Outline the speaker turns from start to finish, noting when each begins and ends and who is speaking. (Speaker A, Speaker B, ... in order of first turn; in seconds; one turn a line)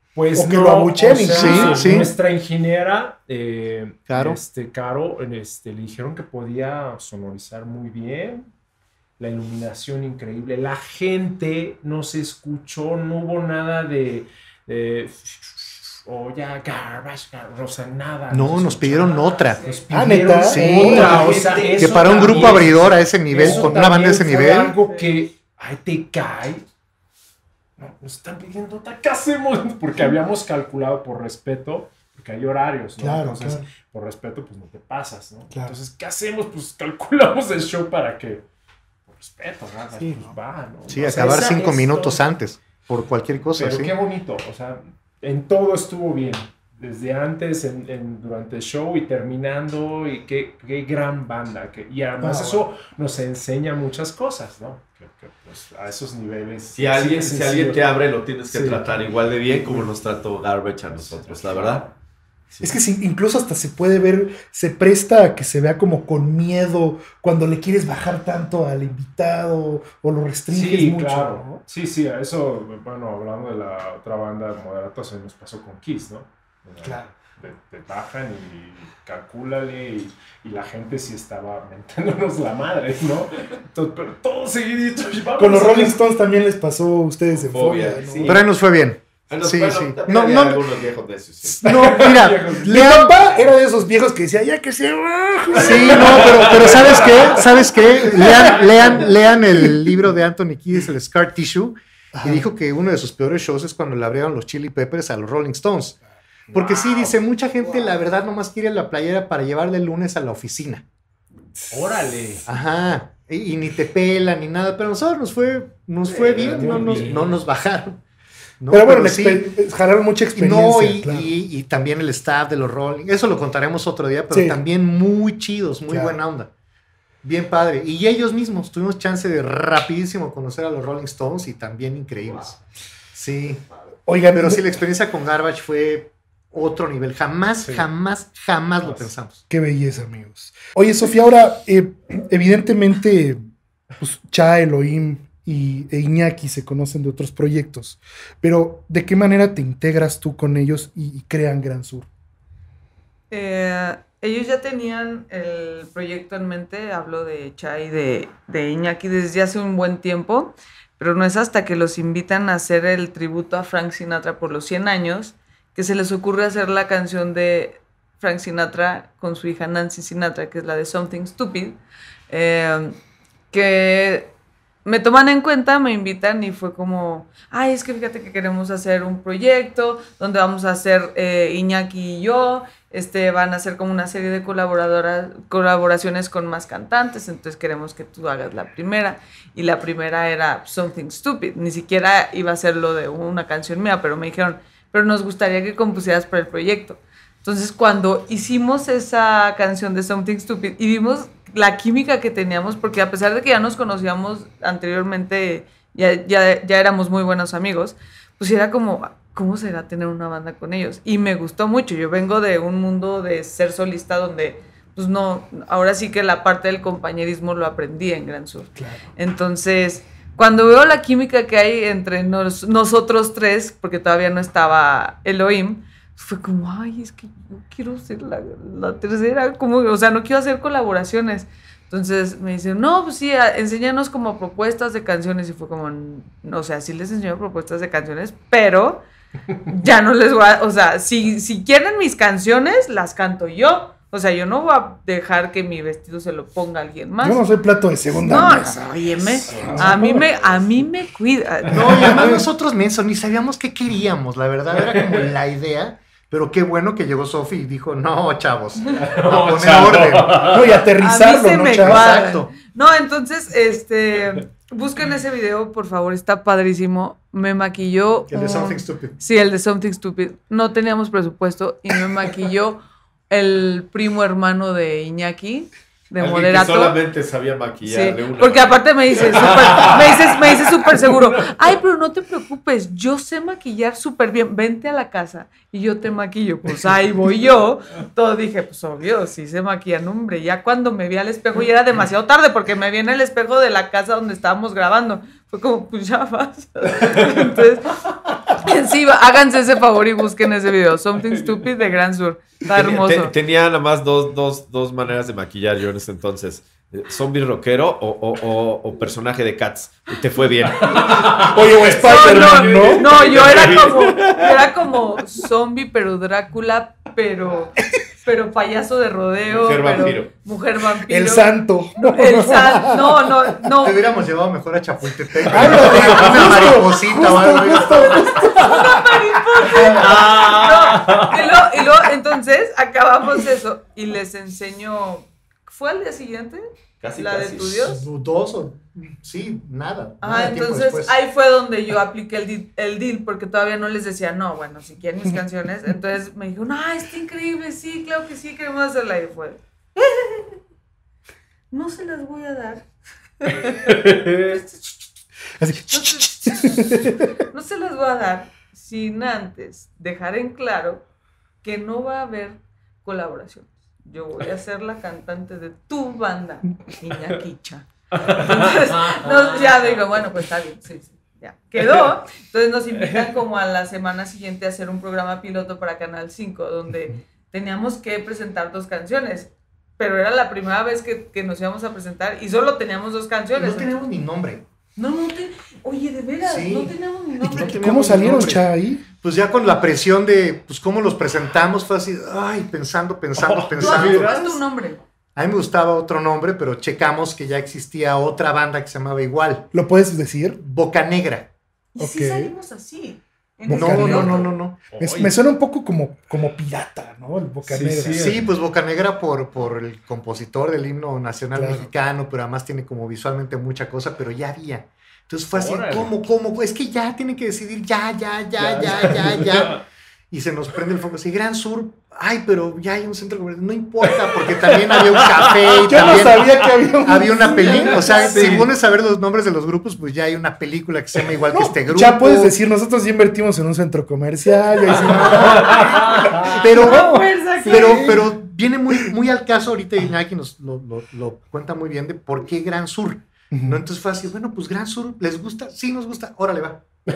Speaker A: 0.1-8.5
Speaker B: 0.3-2.1
Speaker C: 1.3-2.1
Speaker C: 4.1-4.4
Speaker A: 9.2-26.7
Speaker C: 18.3-19.6
Speaker D: 19.1-19.9
Speaker B: 19.9-22.6
Speaker C: 20.4-24.8
Speaker B: 23.3-24.6
Speaker D: 24.8-25.2
Speaker A: 27.8-38.5
Speaker B: 33.0-33.7
Speaker B: 35.5-35.8
Speaker A: 39.1-42.2
Speaker B: 40.0-40.4
Speaker C: 40.9-43.9
Speaker A: 43.6-57.9
Speaker B: 52.2-52.7
Speaker E: 56.7-61.9
Speaker A: 58.5-58.9
Speaker A: 61.0-61.9
Speaker B: 62.6-71.6
Speaker A: 70.5-86.0
Speaker B: 76.8-77.1
Speaker B: 85.4-88.5
Speaker E: 87.5-88.4
Speaker A: 88.0-88.4
Speaker C: 88.2-90.7
Speaker E: 89.3-91.7
Speaker C: 91.5-93.2
Speaker A: 91.6-93.0
Speaker B: 91.9-99.0
Speaker A: 95.5-99.1
Speaker C: 95.5-106.0
Speaker B: 99.5-100.0
Speaker B: 102.2-102.5
Speaker C: 106.5-110.8
Speaker A: 111.7-112.5
Speaker C: 112.5-118.0
Speaker A: 116.1-117.4
Speaker E: 116.1-117.2
Speaker C: 118.6-119.5
Speaker B: 118.7-121.3
Speaker C: 120.3-126.5
Speaker B: 124.3-124.6
Speaker B: 125.9-126.2
Speaker C: 127.2-132.6
Speaker C: 133.1-133.6
Speaker B: 134.1-134.8
Speaker C: 134.3-139.4
Speaker A: 137.6-137.9
Speaker A: 138.8-139.1
Speaker B: 139.5-143.4
Speaker B: 144.0-152.1
Speaker D: 153.3-171.8
Speaker D: 172.3-173.0
Speaker D: 173.5-174.3
Speaker D: 174.8-239.0
Speaker B: 218.8-219.1
Speaker D: 239.7-247.4
Speaker B: 247.2-250.2
Speaker D: 248.2-252.1
Speaker A: 249.4-250.9
Speaker C: 251.7-260.6
Speaker B: 251.7-252.5
Speaker A: 258.9-260.8
Speaker B: 260.4-262.1
Speaker D: 261.0-277.0
Speaker C: 261.8-262.5
Speaker C: 268.3-269.2
Speaker E: 276.2-280.4
Speaker D: 277.9-303.3
Speaker A: 301.2-301.7
Speaker E: 302.7-311.4
Speaker A: 310.8-313.8
Speaker B: 311.4-313.1
Speaker D: 311.8-324.0
Speaker E: 313.0-314.6
Speaker E: 319.5-320.3
Speaker B: 321.0-323.7
Speaker C: 323.8-328.6
Speaker B: 325.4-330.0
Speaker D: 327.9-338.0
Speaker A: 329.9-331.8
Speaker E: 330.0-330.6
Speaker E: 337.0-338.0
Speaker C: 337.8-341.2
Speaker D: 340.2-350.6
Speaker D: 351.7-352.9
Speaker D: 353.4-355.0
Speaker A: 353.7-354.6
Speaker B: 355.6-357.4
Speaker D: 355.9-361.0
Speaker D: 361.6-384.1
Speaker A: 368.1-370.2
Speaker A: 373.0-373.3
Speaker C: 383.6-384.6
Speaker D: 385.0-387.9
Speaker C: 386.4-388.7
Speaker B: 387.4-389.0
Speaker C: 389.2-394.6
Speaker A: 393.4-394.5
Speaker D: 393.8-395.0
Speaker C: 395.4-399.7
Speaker B: 399.7-400.6
Speaker C: 400.6-401.5
Speaker D: 401.9-404.6
Speaker B: 402.0-402.5
Speaker B: 403.6-408.4
Speaker C: 403.7-404.8
Speaker A: 404.9-405.4
Speaker A: 407.6-408.4
Speaker C: 408.1-432.5
Speaker B: 411.5-411.9
Speaker A: 415.5-416.2
Speaker A: 418.6-419.8
Speaker B: 418.7-419.5
Speaker A: 424.5-426.3
Speaker B: 425.9-428.2
Speaker D: 427.4-428.6
Speaker A: 428.2-428.7
Speaker B: 431.5-438.4
Speaker C: 434.9-446.8
Speaker A: 435.3-436.6
Speaker D: 435.4-438.2
Speaker B: 443.5-443.8